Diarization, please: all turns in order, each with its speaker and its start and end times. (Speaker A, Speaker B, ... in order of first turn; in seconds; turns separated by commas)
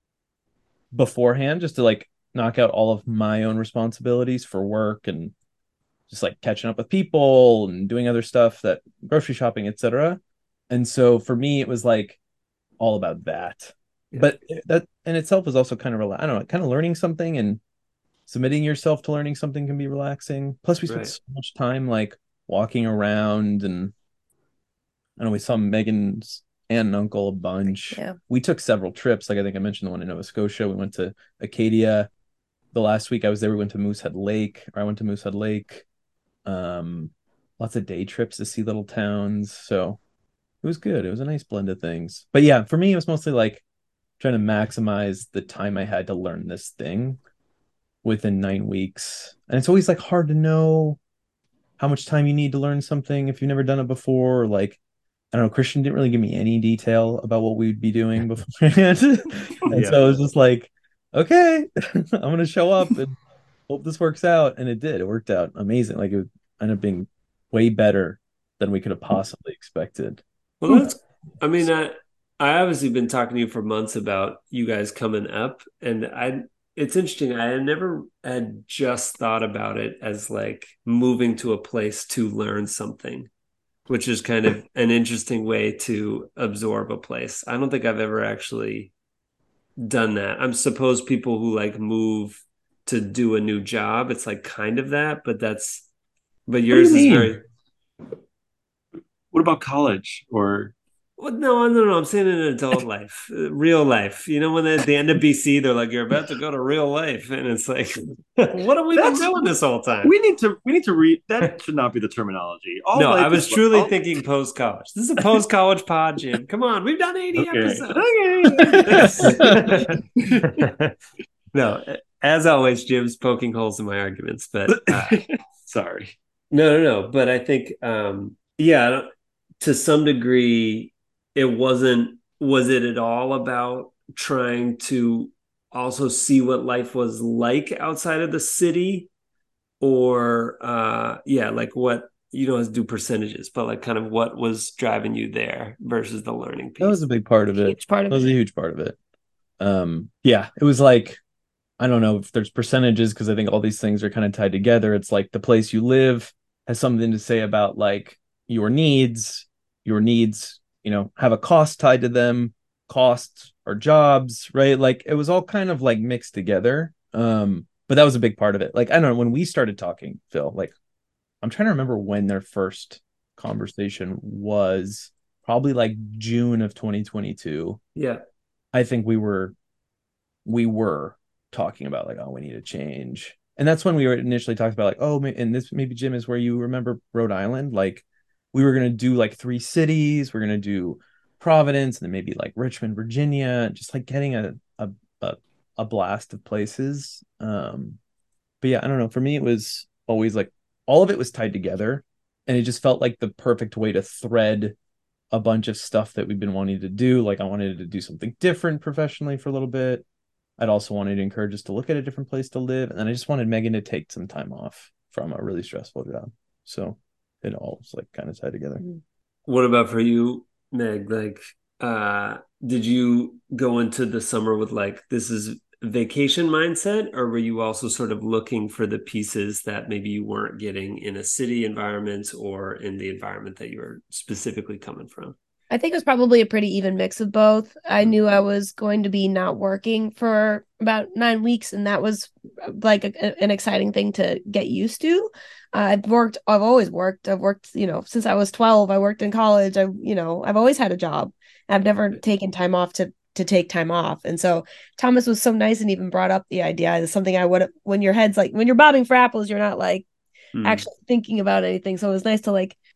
Speaker A: 0.9-5.3, Speaker A: 6.1-12.2, Speaker A: 12.8-17.6, Speaker A: 18.3-23.9, Speaker B: 20.9-21.1, Speaker A: 25.2-32.1, Speaker A: 32.7-35.8, Speaker A: 36.5-40.0, Speaker A: 40.6-43.6, Speaker A: 44.2-47.2, Speaker A: 48.0-51.0, Speaker A: 51.8-54.8, Speaker A: 55.3-70.2, Speaker B: 59.7-60.2, Speaker B: 70.6-83.3, Speaker B: 83.9-88.9, Speaker B: 89.8-95.9, Speaker B: 96.5-97.4, Speaker C: 96.7-97.3, Speaker C: 99.3-100.7, Speaker B: 101.2-110.1, Speaker C: 109.0-109.4, Speaker C: 110.0-113.9, Speaker B: 112.9-120.9, Speaker C: 117.3-120.6, Speaker A: 119.2-119.6, Speaker B: 121.5-125.2, Speaker C: 124.7-126.1, Speaker B: 126.5-129.1, Speaker B: 129.6-139.1, Speaker B: 139.8-147.0, Speaker A: 146.8-149.0, Speaker D: 147.5-148.4, Speaker A: 149.6-151.2, Speaker A: 151.8-170.7, Speaker A: 171.4-177.8, Speaker B: 177.9-178.2, Speaker A: 178.7-179.5, Speaker A: 180.4-198.0, Speaker A: 198.6-204.7, Speaker A: 205.3-210.0, Speaker A: 210.6-218.8, Speaker B: 219.4-235.4, Speaker D: 235.7-260.1, Speaker B: 260.5-260.8, Speaker D: 260.6-262.8